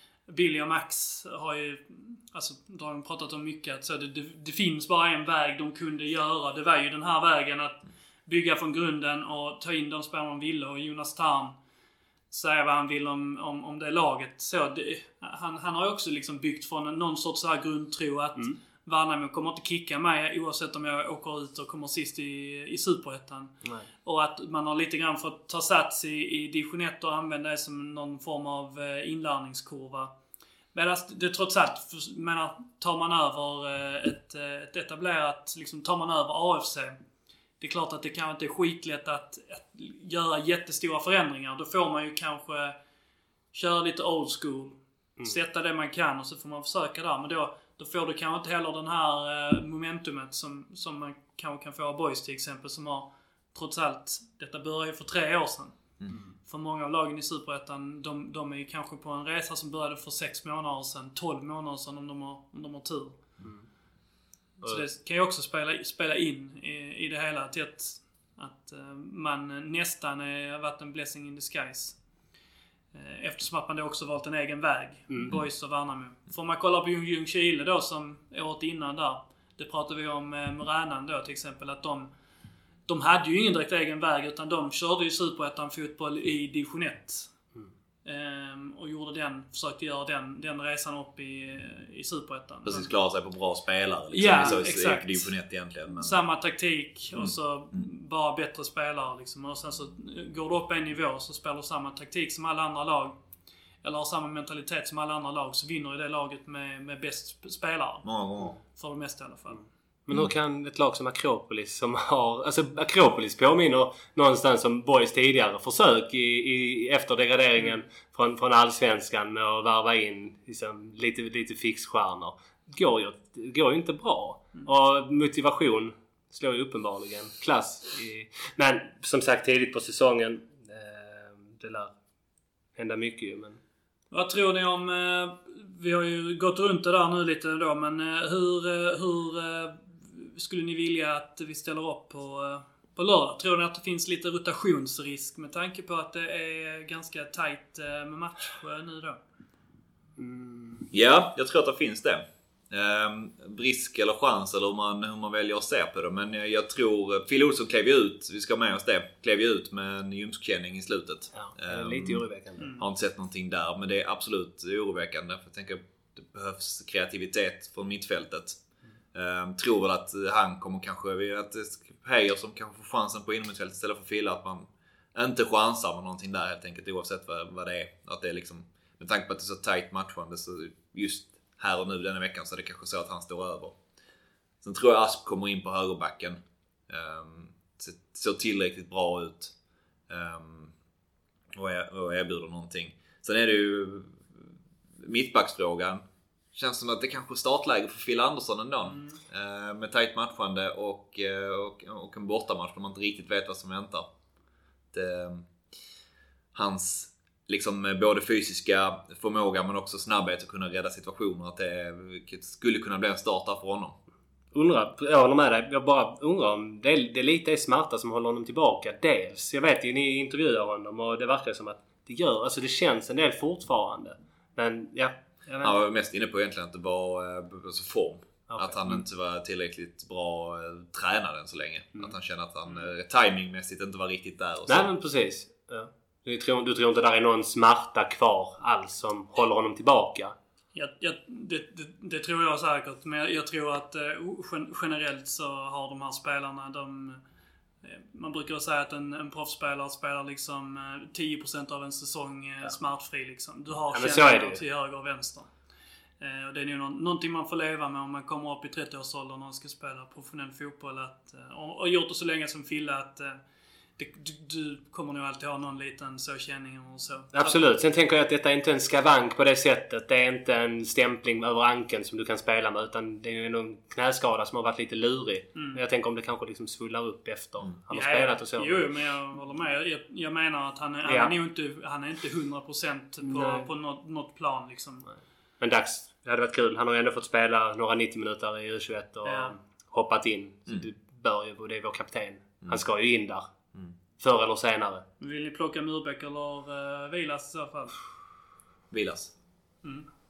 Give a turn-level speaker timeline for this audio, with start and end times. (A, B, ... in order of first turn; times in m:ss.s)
0:00.3-0:11.6 A
0:12.3-0:30.1 A
0:30.7-0:37.0 A
0:37.6-0:42.8 A
0:43.5-0:55.8 A
0:56.5-1:03.2 A
1:04.6-1:12.0 A
1:12.9-1:22.1 A
1:15.1-1:15.4 B
1:22.9-1:27.3 A
1:28.0-1:32.9 A
1:32.6-1:36.2 C
1:34.1-1:35.3 A
1:36.0-1:43.2 A
1:37.2-1:37.8 C
1:43.8-1:48.1 A
1:48.0-1:48.6 C
1:48.6-1:49.6 A
1:50.1-2:11.9 B
2:12.8-2:13.6 B
2:14.1-2:29.2 A
2:30.2-2:30.9 B
2:30.9-2:42.2 C
2:41.3-2:42.7 B
2:42.6-2:42.8 A
2:42.8-2:48.6 C
2:49.1-3:03.8 C
3:04.6-3:09.5 C
3:10.1-3:10.7 C
3:11.6-3:14.4 C
3:15.0-3:24.1 C
3:18.9-3:19.2 A
3:24.9-3:25.5 C
3:26.5-3:34.0 C
3:34.5-3:45.8 B
3:45.6-3:54.9 C
3:48.5-3:49.0 B
3:54.7-4:00.4 B
4:00.8-4:07.2 A
4:07.8-4:15.5 A
4:13.9-4:14.6 B
4:16.2-4:23.4 A
4:24.0-4:27.6 A
4:27.3-4:38.9 B
4:35.6-4:35.8 A
4:37.9-4:45.1 A
4:41.1-4:41.3 B
4:43.2-4:43.7 B
4:45.6-4:53.5 B
4:49.2-4:49.6 A
4:54.2-4:55.0 B
4:55.2-4:58.0 A
4:58.9-4:59.3 C